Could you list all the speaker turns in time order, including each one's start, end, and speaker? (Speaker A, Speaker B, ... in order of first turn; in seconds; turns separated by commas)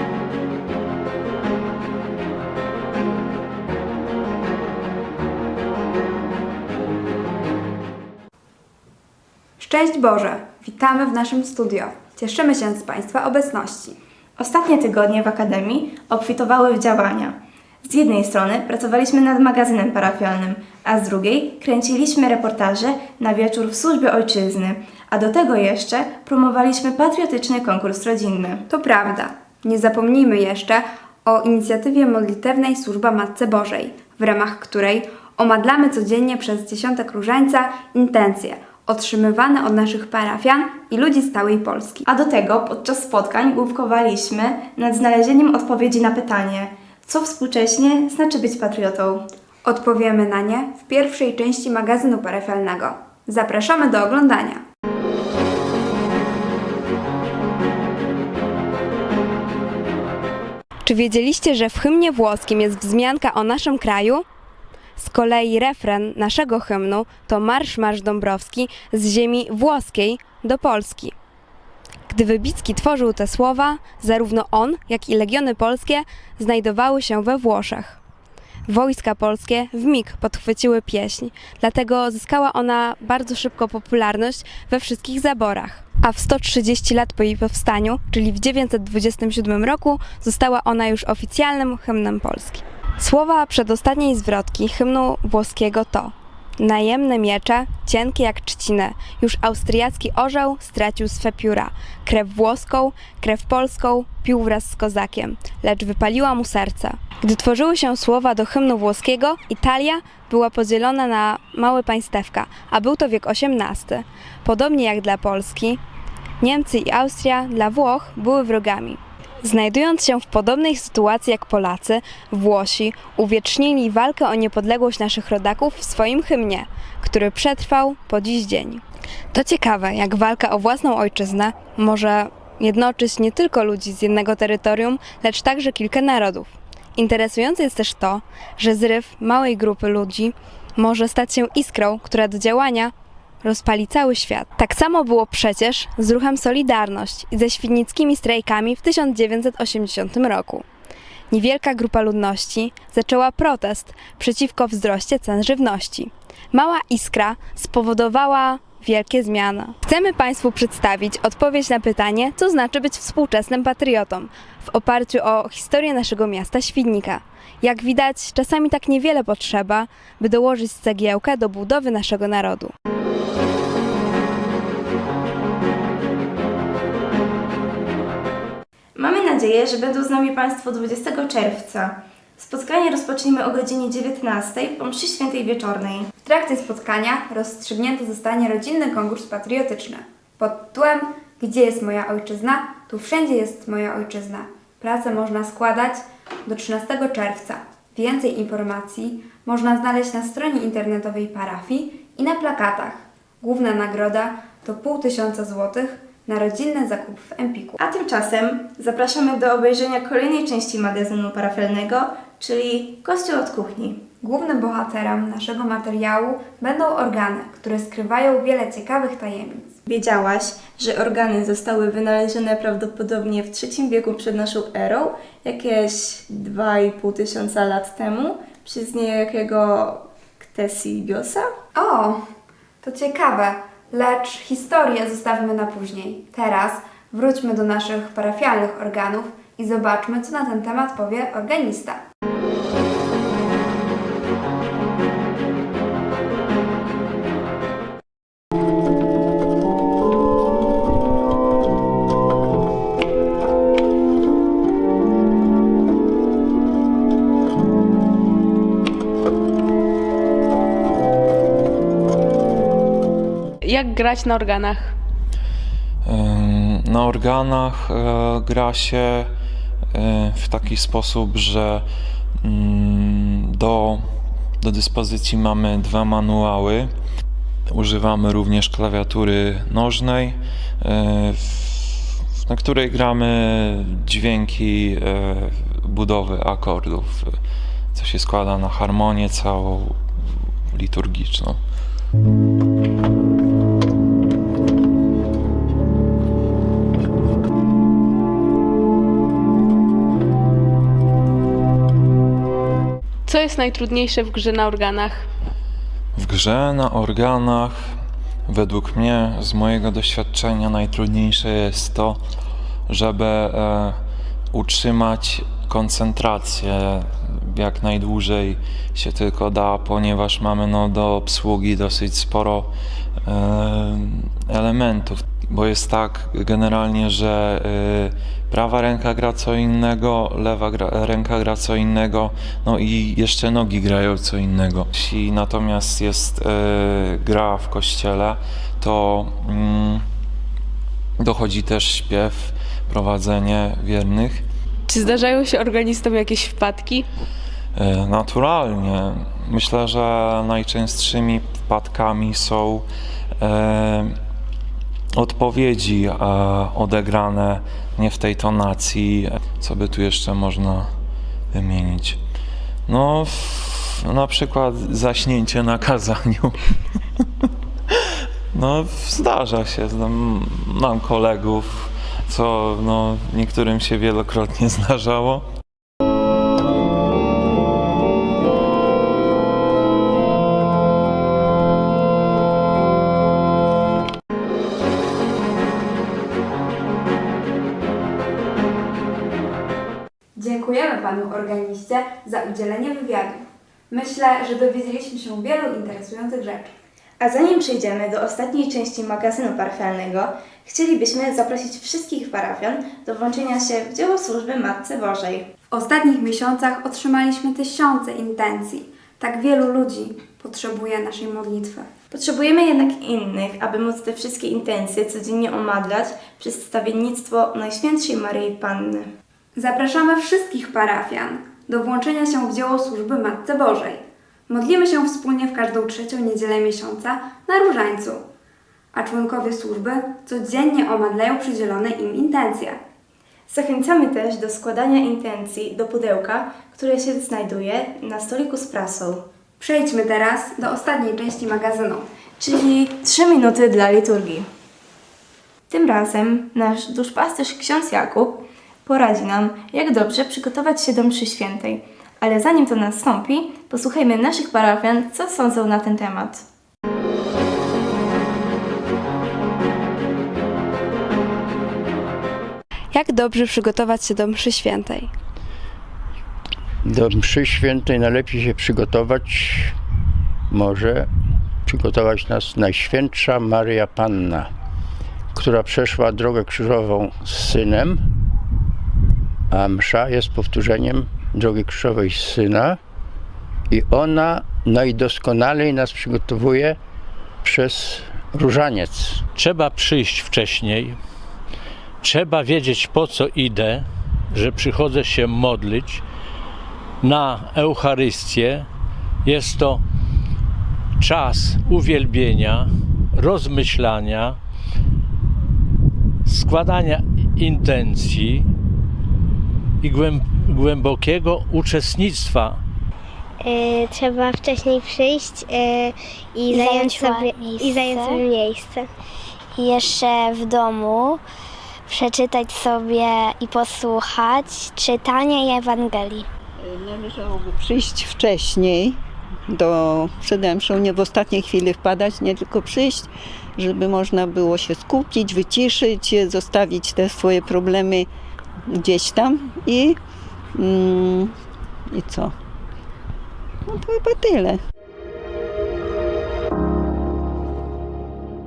Speaker A: 9.6-14.0, Speaker B: 14.4-17.3, Speaker B: 17.9-28.6, Speaker A: 28.7-42.0, Speaker B: 42.1-49.2, Speaker A: 49.6-54.6, Speaker A: 60.8-64.2, Speaker A: 65.0-71.1, Speaker A: 72.1-78.0, Speaker A: 78.7-115.8, Speaker A: 116.4-150.6, Speaker A: 151.3-172.7, Speaker B: 179.0-186.1, Speaker A: 186.2-207.8, Speaker B: 207.8-214.0, Speaker A: 214.2-219.8, Speaker B: 219.9-231.4, Speaker A: 231.8-232.2, Speaker A: 232.8-242.0, Speaker C: 263.6-264.9, Speaker D: 266.0-269.3, Speaker D: 269.9-271.9, Speaker D: 272.4-274.0, Speaker D: 274.6-276.9, Speaker D: 277.7-287.3, Speaker D: 287.9-289.9, Speaker D: 290.7-291.6, Speaker C: 303.3-305.2, Speaker D: 306.1-307.8, Speaker D: 308.5-312.2, Speaker D: 312.9-314.0, Speaker D: 314.5-322.7, Speaker D: 323.2-340.0, Speaker D: 341.2-344.4, Speaker C: 344.9-347.1, Speaker D: 347.8-352.8, Speaker D: 353.4-354.1, Speaker D: 355.2-360.9, Speaker D: 361.5-362.2, Speaker D: 362.9-366.5, Speaker D: 368.5-375.4, Speaker A: 390.4-396.7, Speaker B: 397.2-405.5, Speaker A: 405.7-411.9, Speaker B: 412.1-419.1, Speaker A: 419.6-428.2, Speaker A: 428.9-432.8, Speaker B: 433.5-439.2, Speaker A: 439.6-442.1, Speaker B: 442.4-444.4, Speaker B: 445.7-456.4, Speaker A: 462.9-465.1, Speaker E: 466.8-469.8, Speaker E: 470.5-471.1, Speaker E: 471.6-474.5, Speaker E: 475.3-478.1, Speaker E: 479.5-482.8, Speaker E: 483.7-486.8, Speaker E: 487.4-489.2, Speaker F: 489.4-491.0, Speaker F: 492.0-496.0, Speaker F: 497.0-498.7, Speaker F: 499.2-499.8, Speaker F: 501.0-504.4, Speaker F: 506.2-508.5, Speaker F: 509.8-512.6, Speaker G: 513.4-515.4, Speaker H: 514.0-518.9, Speaker G: 516.4-518.4, Speaker G: 519.6-521.2, Speaker G: 521.9-526.3, Speaker I: 526.8-528.9, Speaker I: 529.5-533.0, Speaker I: 533.6-538.0, Speaker I: 538.8-539.9, Speaker I: 540.6-541.2, Speaker I: 542.0-542.3, Speaker I: 543.8-544.6